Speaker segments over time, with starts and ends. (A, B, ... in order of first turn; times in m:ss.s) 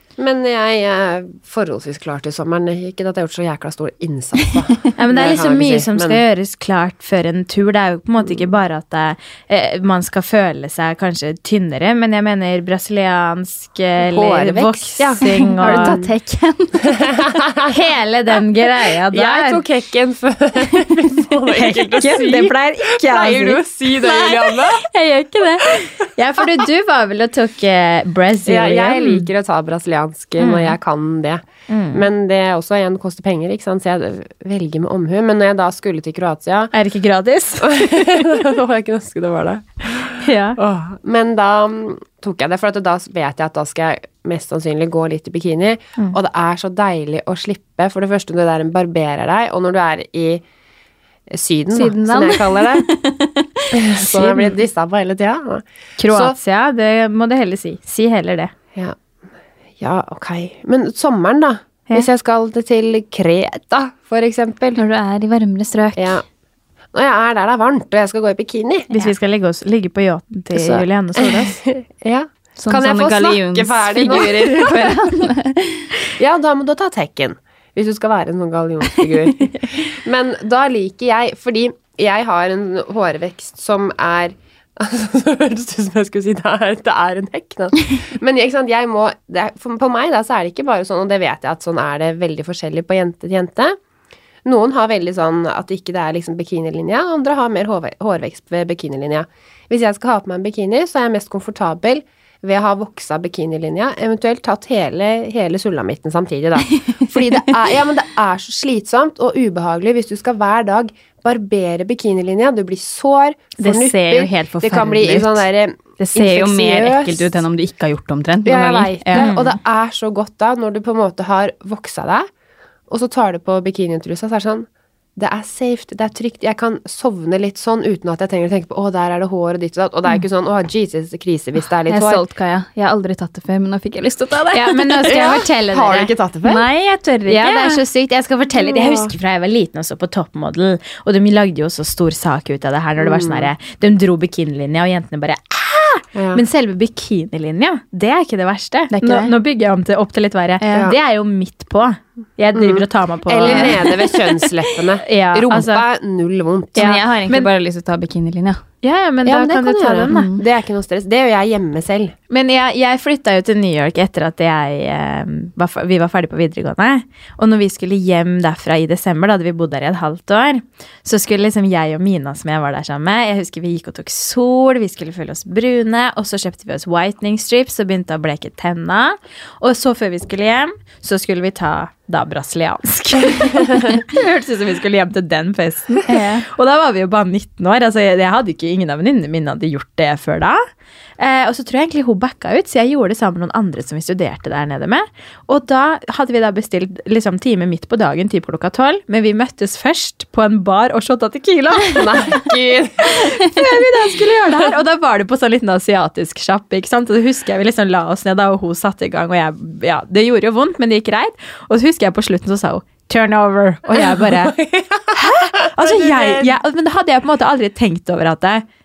0:00.2-0:06.2 A
0:05.0-0:16.0 B
0:14.0-0:16.1 A
0:15.2-0:17.0 C
0:16.8-0:17.7 A
0:17.7-0:19.6 B
0:19.1-0:24.8 A
0:21.5-0:23.6 B
0:23.9-0:25.9 C
0:26.2-0:29.3 B
0:28.4-0:36.7 A
0:30.4-0:30.8 B
0:31.7-0:32.0 B
0:36.7-0:38.4 B
0:37.6-0:50.4 A
0:40.2-0:40.6 B
0:51.3-0:52.9 A
0:51.7-0:54.5 C
0:53.7-0:56.4 A
0:56.0-0:58.5 B
0:59.8-1:04.8 A
1:04.7-1:06.2 C
1:06.0-1:06.2 A
1:06.9-1:08.9 A
1:08.9-1:11.6 B
1:10.6-1:15.1 A
1:12.6-1:16.0 C
1:16.1-1:33.8 A
1:18.9-1:19.5 C
1:34.4-1:57.4 A
1:46.8-1:47.5 C
1:53.6-1:55.4 C
1:56.0-1:59.3 C
1:58.4-2:02.3 A
1:59.1-1:59.6 B
2:02.9-2:12.2 A
2:11.9-2:15.4 C
2:14.5-2:16.1 B
2:15.1-2:16.6 A
2:16.4-2:17.8 C
2:17.3-2:33.9 B
2:18.6-2:19.1 A
2:23.0-2:23.5 A
2:26.1-2:26.4 A
2:28.9-2:29.3 C
2:30.6-2:30.9 C
2:32.5-2:36.9 A
2:33.4-2:34.8 C
2:35.0-2:35.8 B
2:36.8-2:37.5 B
2:36.8-2:38.6 C
2:38.8-2:40.3 B
2:39.2-2:42.1 A
2:40.1-2:40.4 C
2:42.3-3:10.6 B
3:06.1-3:06.4 C
3:11.2-3:22.4 B
3:21.9-3:23.3 A
3:23.0-3:34.5 B
3:34.0-3:36.5 A
3:35.1-3:38.6 B